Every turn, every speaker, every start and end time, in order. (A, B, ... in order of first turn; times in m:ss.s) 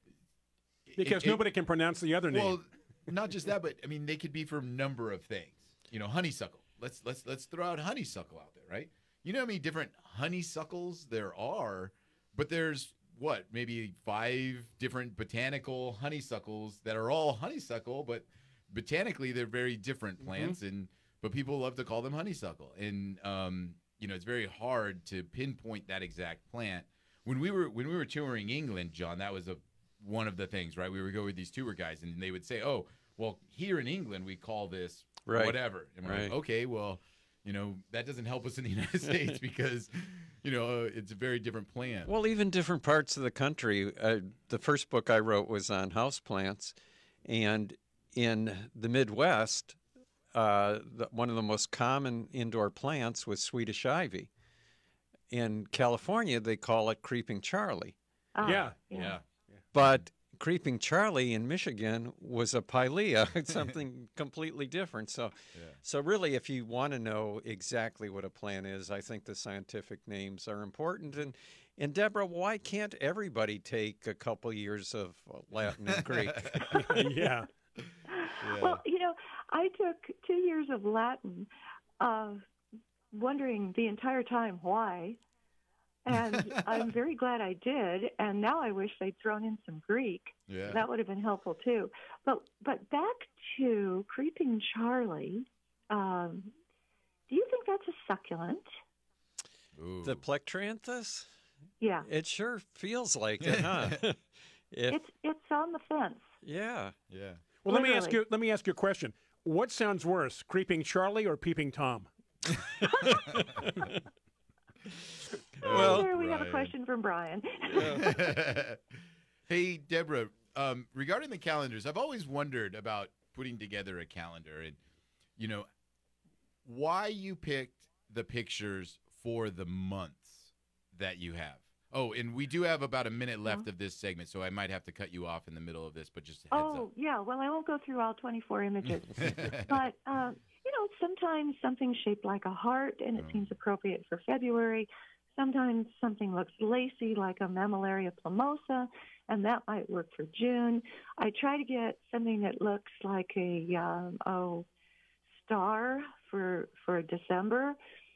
0:00.9-0:01.4 A
0:01.0-0:02.6 B
0:02.3-0:42.1 A
0:20.3-0:20.6 B
0:35.3-0:36.4 C
0:42.1-0:49.8 C
0:50.3-0:54.3 C
0:55.3-0:58.0 C
0:58.4-0:59.2 D
0:58.4-0:59.2 A
0:58.4-0:58.8 B
0:59.7-1:16.8 C
1:15.9-1:16.8 A
1:16.7-1:17.1 D
1:16.7-1:17.5 B
1:17.8-1:18.8 A
1:18.1-1:21.5 D
1:22.0-1:22.4 D
1:23.1-1:25.2 D
1:26.0-1:36.6 D
1:26.3-1:26.8 A
1:30.5-1:30.9 A
1:37.3-1:38.7 D
1:39.8-1:40.2 A
1:40.0-1:41.3 C
1:41.8-1:42.1 D
1:42.0-1:45.0 C
1:43.4-1:44.0 A
1:44.9-1:46.3 D
1:46.4-1:46.9 C
1:47.1-1:47.4 A
1:47.6-1:52.1 B
1:47.7-1:48.2 D
1:53.2-1:53.5 A
1:55.6-1:58.3 D
1:55.6-1:56.7 A
1:55.6-1:56.1 C
1:57.7-1:58.8 A
1:57.7-1:58.0 C
1:59.5-2:04.8 A
2:05.4-2:05.7 A
2:06.6-2:16.9 A
2:16.5-2:34.7 D
2:19.1-2:19.8 A
2:23.2-2:23.5 A
2:35.4-2:37.8 D